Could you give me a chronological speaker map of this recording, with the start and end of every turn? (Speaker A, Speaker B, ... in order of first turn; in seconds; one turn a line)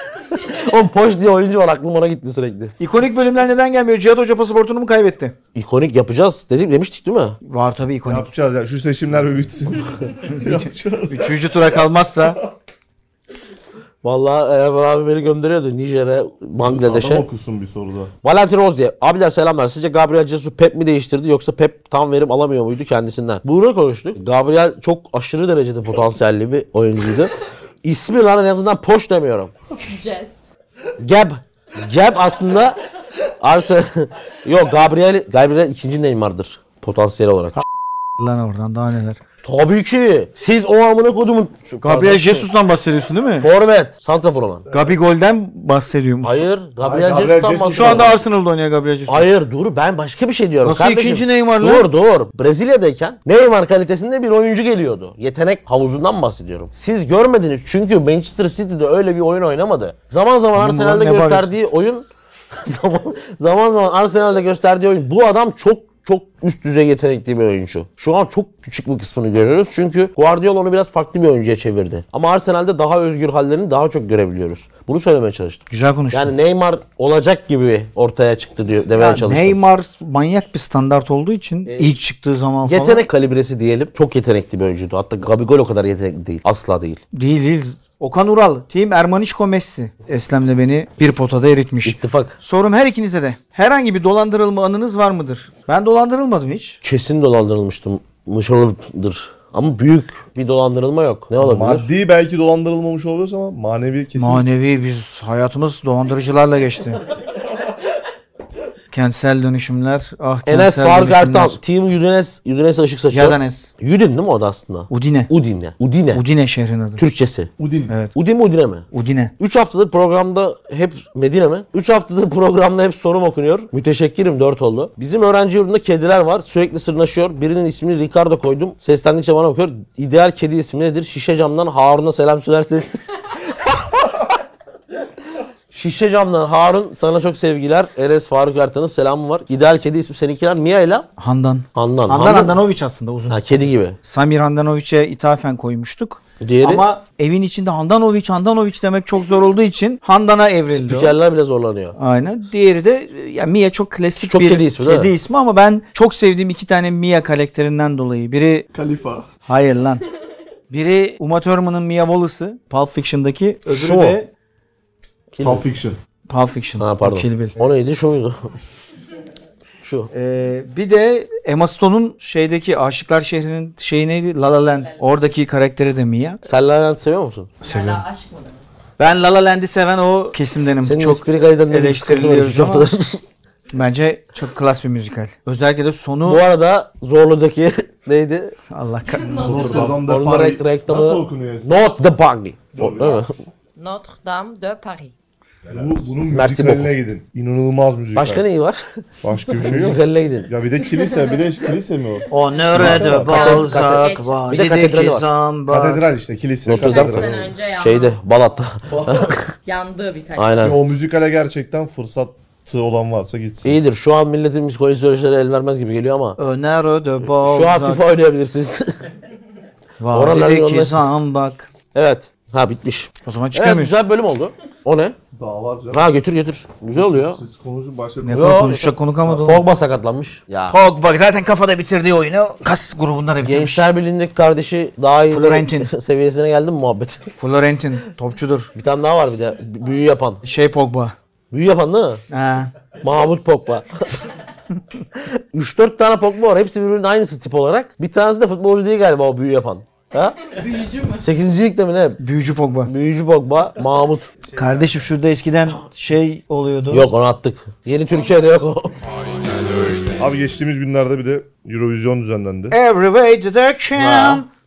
Speaker A: 0.2-2.7
Speaker B: 2.8-5.3
Speaker A: 5.5-7.4
Speaker B: 7.4-8.3
Speaker C: 8.1-11.4
Speaker B: 10.3-12.4
Speaker A: 14.0-17.2
Speaker C: 16.6-18.1
Speaker A: 18.2-27.3
Speaker A: 27.8-29.5
Speaker D: 29.8-30.3
Speaker A: 31.0-32.8
Speaker A: 33.4-37.6
Speaker B: 38.2-39.2
Speaker A: 39.4-42.5
Speaker B: 41.8-43.5
Speaker A: 43.4-44.7
Speaker B: 44.7-46.4
Speaker A: 46.2-48.2
Speaker C: 46.8-48.2
Speaker B: 47.7-49.3
Speaker A: 49.1-79.6
Speaker B: 50.6-51.9
Speaker B: 60.5-61.5
Speaker B: 75.7-76.3
Speaker B: 79.0-83.0
Speaker A: 81.7-81.9
Speaker A: 82.7-87.0
Speaker B: 87.1-96.8
Speaker A: 91.8-92.4
Speaker A: 96.8-101.9
Speaker C: 101.4-104.4
Speaker B: 104.2-107.0
Speaker B: 108.9-111.6
Speaker A: 110.5-116.2
Speaker B: 113.1-113.7
Speaker B: 114.9-115.3
Speaker B: 116.1-117.0
Speaker A: 117.0-117.5
Speaker C: 117.6-117.9
Speaker A: 118.1-118.8
Speaker B: 118.9-119.3
Speaker A: 119.4-134.2
Speaker A: 135.7-141.1
Speaker B: 141.2-151.1
Speaker A: 141.7-142.6
Speaker A: 143.3-144.0
Speaker A: 146.4-146.8
Speaker A: 150.7-151.9
Speaker B: 152.0-158.7
Speaker A: 154.2-155.1
Speaker C: 158.7-159.2
Speaker B: 159.5-160.0
Speaker B: 160.7-164.3
Speaker A: 163.7-164.2
Speaker A: 165.3-165.6
Speaker C: 165.4-166.0
Speaker B: 166.3-167.6
Speaker A: 166.8-168.5
Speaker A: 169.8-170.1
Speaker B: 170.1-176.4
Speaker A: 176.4-177.5
Speaker D: 177.6-178.6
Speaker B: 177.6-178.0
Speaker B: 179.0-182.9
Speaker A: 180.8-183.2
Speaker B: 183.7-186.4
Speaker A: 186.2-188.5
Speaker B: 188.7-189.8
Speaker D: 189.1-189.9
Speaker C: 189.3-191.8
Speaker A: 189.4-193.4
Speaker C: 192.7-193.3
Speaker D: 193.8-195.1
Speaker C: 195.7-198.4
Speaker A: 196.3-196.9
Speaker A: 198.1-199.0
Speaker C: 199.2-203.5
Speaker A: 199.5-200.5
Speaker B: 202.3-206.0
Speaker A: 202.7-205.2
Speaker D: 203.2-204.6
Speaker C: 205.7-207.5
Speaker A: 206.7-209.5
Speaker D: 206.7-208.2
Speaker C: 208.9-209.3
Speaker D: 209.6-210.7
Speaker A: 210.3-210.8
Speaker C: 210.6-213.8
Speaker A: 213.6-216.4
Speaker B: 216.4-218.0
Speaker A: 217.3-218.9
Speaker B: 220.0-221.7
Speaker A: 220.1-221.1
Speaker A: 221.9-225.2
Speaker B: 223.2-223.9
Speaker C: 225.3-226.1
Speaker A: 225.9-227.4
Speaker C: 226.9-228.5
Speaker B: 228.2-229.6
Speaker A: 228.3-230.8
Speaker B: 230.7-233.8
Speaker A: 233.4-237.3
Speaker B: 235.3-235.9
Speaker B: 237.4-238.7
Speaker A: 238.8-240.4
Speaker B: 240.4-241.1
Speaker A: 241.5-242.2
Speaker B: 242.3-242.7
Speaker A: 243.0-244.3
Speaker A: 245.2-250.5
Speaker D: 250.5-251.2
Speaker A: 251.2-252.2
Speaker B: 252.2-252.9
Speaker A: 252.9-254.3
Speaker B: 254.5-257.1
Speaker A: 256.9-259.1
Speaker C: 260.2-262.8
Speaker B: 262.7-264.5
Speaker A: 263.9-264.4